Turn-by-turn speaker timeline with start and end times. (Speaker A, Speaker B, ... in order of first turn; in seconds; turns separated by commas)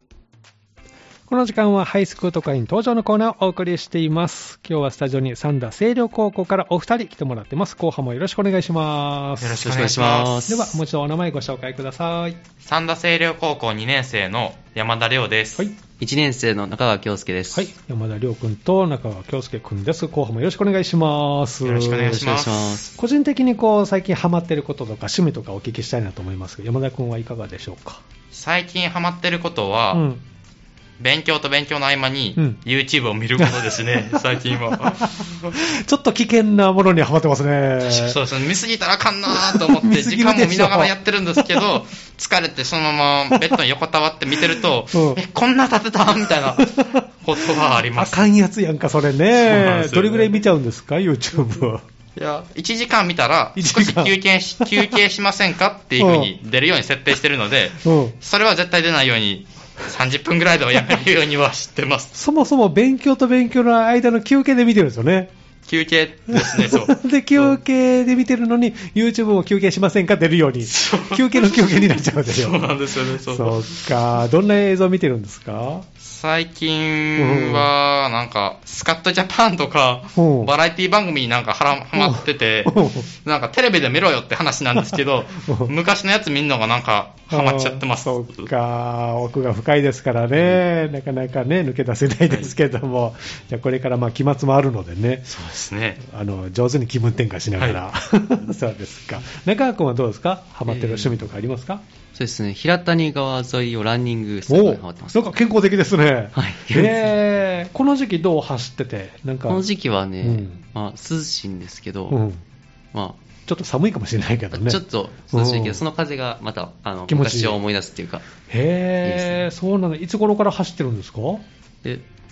Speaker A: 1.3-9.8, Speaker B: 9.4-10.5, Speaker C: 9.6-10.8, Speaker A: 10.5-12.4, Speaker B: 12.6-15.7, Speaker C: 16.0-17.7, Speaker A: 17.5-28.0, Speaker B: 21.6-22.9, Speaker C: 22.1-22.9, Speaker B: 28.3-30.1, Speaker A: 29.9-30.2, Speaker B: 31.0-35.6, Speaker A: 33.4-38.2, Speaker B: 37.8-48.3, Speaker A: 39.3-41.8, Speaker A: 43.3-43.6, Speaker A: 44.4-45.2, Speaker A: 46.5-51.8, Speaker B: 49.4-50.4, Speaker B: 52.2-62.1, Speaker A: 53.6-55.0, Speaker A: 56.0-56.3, Speaker A: 57.8-58.2, Speaker A: 62.1-65.3, Speaker B: 65.7-67.6, Speaker A: 66.3-75.9, Speaker B: 70.7-73.8, Speaker B: 76.0-88.5, Speaker A: 77.2-77.7, Speaker A: 80.2-80.5, Speaker A: 82.0-83.1, Speaker A: 84.8-85.7, Speaker A: 87.3-95.3, Speaker B: 95.3-96.0, Speaker A: 96.0-101.8, Speaker C: 100.7-101.2, Speaker C: 102.1-105.3, Speaker A: 104.5-109.6, Speaker C: 106.3-107.1, Speaker C: 109.5-112.2, Speaker A: 110.2-110.6, Speaker A: 112.1-112.4, Speaker C: 112.9-113.2, Speaker A: 113.5-115.8, Speaker C: 114.5-118.3, Speaker A: 117.1-117.6, Speaker A: 118.5-121.4, Speaker C: 119.0-119.5